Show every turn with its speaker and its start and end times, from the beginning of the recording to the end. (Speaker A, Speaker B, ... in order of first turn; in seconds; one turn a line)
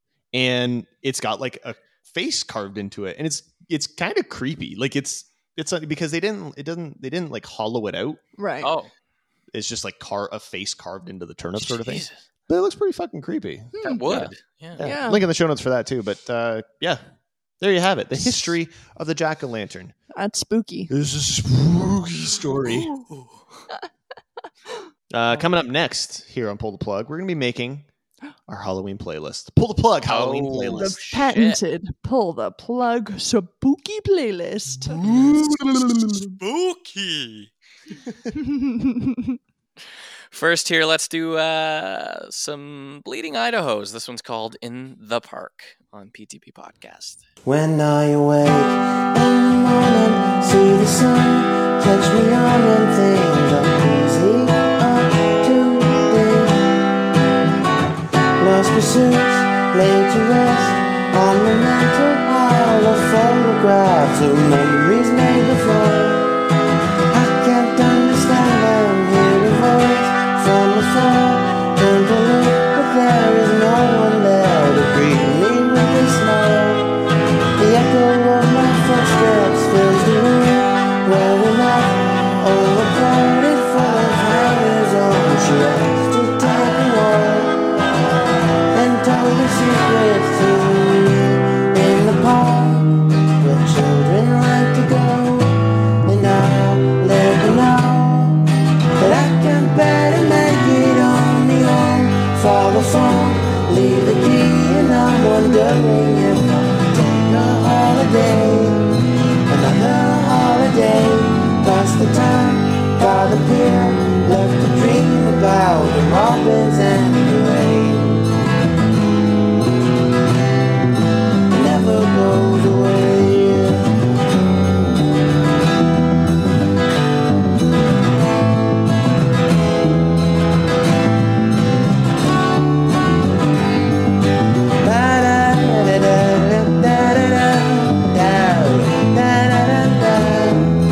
Speaker A: 0.3-8.2
Speaker B: 8.4-8.7
Speaker C: 8.6-8.9
Speaker A: 9.5-17.0
Speaker C: 11.6-12.2
Speaker B: 13.8-14.0
Speaker C: 13.8-14.8
Speaker B: 14.8-15.2
Speaker A: 17.6-19.9
Speaker B: 20.1-20.9
Speaker A: 20.9-22.9
Speaker C: 22.7-23.6
Speaker A: 25.1-27.9
Speaker A: 28.5-31.0
Speaker C: 30.1-31.6
Speaker B: 30.8-35.0
Speaker A: 34.8-36.3
Speaker C: 35.0-35.4
Speaker C: 36.4-37.5
Speaker B: 38.3-39.4
Speaker C: 40.3-47.2
Speaker D: 47.5-56.6
Speaker D: 58.4-66.3
Speaker D: 67.1-76.9
Speaker D: 77.6-87.6
Speaker D: 88.7-98.4
Speaker D: 99.0-108.9
Speaker D: 109.5-118.2
Speaker D: 121.5-123.8
Speaker D: 134.8-140.7